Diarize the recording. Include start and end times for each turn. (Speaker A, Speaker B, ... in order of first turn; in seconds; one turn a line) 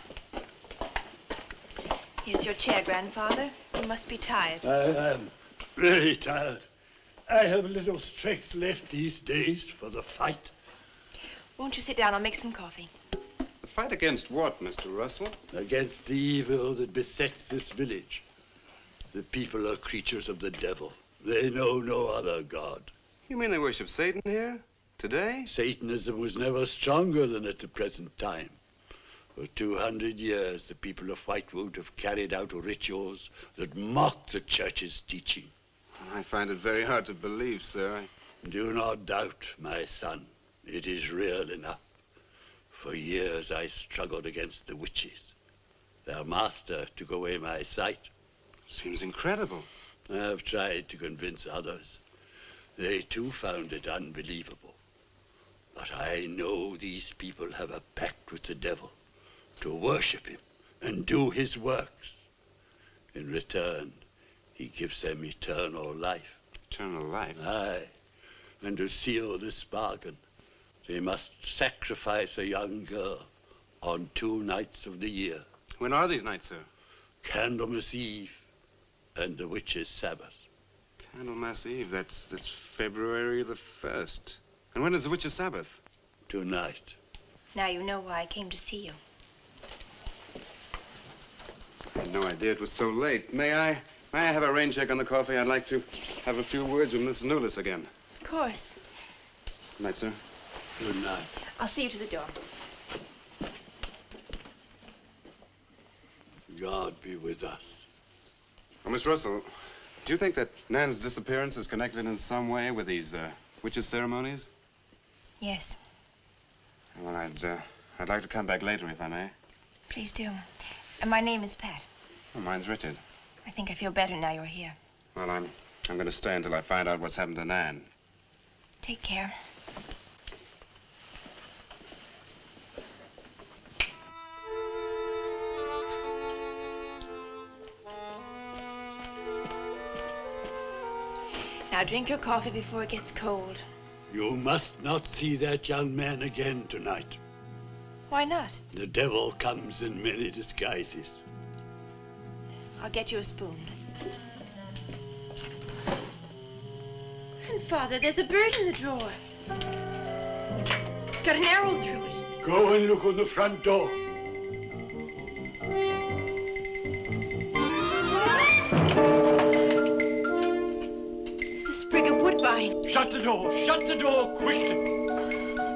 Speaker A: 2.2-4.6
Speaker B: 4.6-6.7
Speaker B: 7.3-10.5
Speaker A: 11.6-12.9
Speaker C: 13.6-15.4
Speaker B: 15.5-18.2
Speaker B: 19.1-22.9
Speaker C: 23.3-25.5
Speaker B: 25.5-28.6
Speaker B: 29.4-35.5
Speaker C: 36.0-38.1
Speaker B: 38.4-41.8
Speaker B: 42.7-45.4
Speaker B: 46.1-48.1
Speaker C: 48.7-49.7
Speaker B: 50.1-52.0
Speaker B: 52.8-54.8
Speaker B: 55.7-58.9
Speaker B: 59.6-62.2
Speaker B: 63.1-64.0
Speaker B: 64.5-66.4
Speaker C: 66.7-67.4
Speaker B: 67.4-67.9
Speaker B: 68.6-70.2
Speaker B: 70.8-73.3
Speaker B: 73.8-75.5
Speaker C: 75.8-76.7
Speaker B: 77.2-78.4
Speaker B: 79.2-80.4
Speaker C: 81.1-85.8
Speaker B: 86.3-87.0
Speaker A: 87.5-89.0
Speaker C: 92.0-97.9
Speaker A: 98.2-98.8
Speaker C: 99.8-100.2
Speaker B: 100.8-101.3
Speaker A: 101.6-102.3
Speaker B: 106.5-107.9
Speaker C: 108.8-109.5
Speaker C: 110.0-114.5
Speaker A: 115.4-115.8
Speaker C: 117.0-119.3
Speaker A: 119.9-120.4
Speaker A: 121.0-121.9
Speaker C: 122.3-123.0
Speaker A: 123.5-124.8
Speaker C: 125.2-127.9
Speaker A: 128.8-129.3
Speaker A: 141.7-143.7
Speaker B: 144.1-147.2
Speaker A: 148.1-148.6
Speaker B: 148.7-151.2
Speaker A: 152.8-153.7
Speaker A: 157.4-159.2
Speaker A: 161.2-162.2
Speaker B: 162.4-164.0
Speaker A: 171.6-172.7
Speaker B: 172.8-174.8